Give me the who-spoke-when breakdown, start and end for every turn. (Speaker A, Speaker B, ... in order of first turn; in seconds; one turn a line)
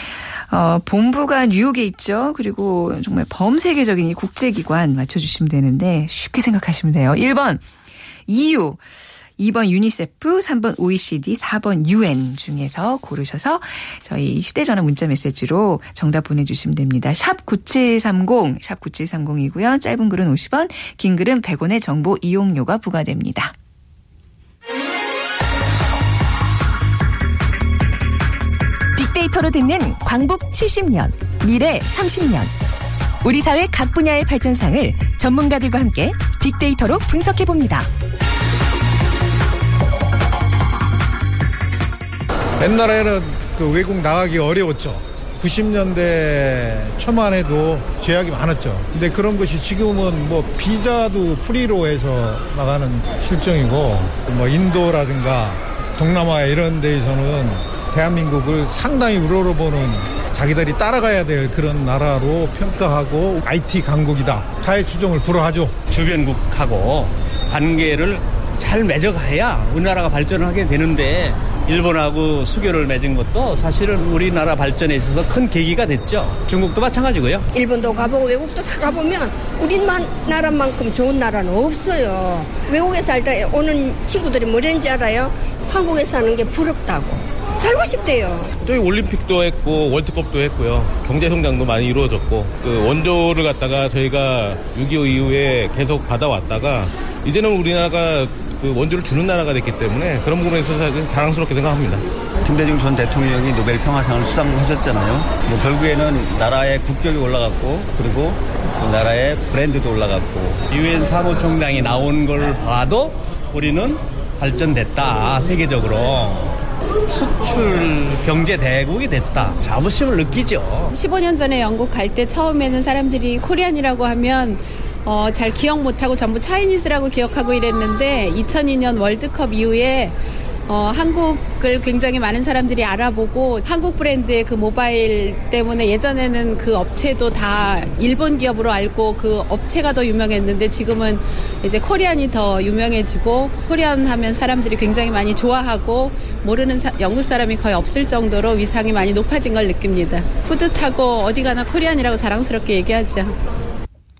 Speaker A: 0.5-7.6
Speaker A: 8.3-8.8
Speaker A: 9.4-23.5
Speaker B: 28.9-32.5
Speaker B: 33.2-37.9
Speaker C: 42.6-65.8
Speaker D: 65.9-77.5
Speaker E: 77.5-88.5
Speaker F: 88.6-102.0
Speaker G: 102.4-110.7
Speaker D: 110.7-116.6
Speaker D: 117.1-120.9
Speaker H: 120.9-130.1
Speaker H: 130.7-153.3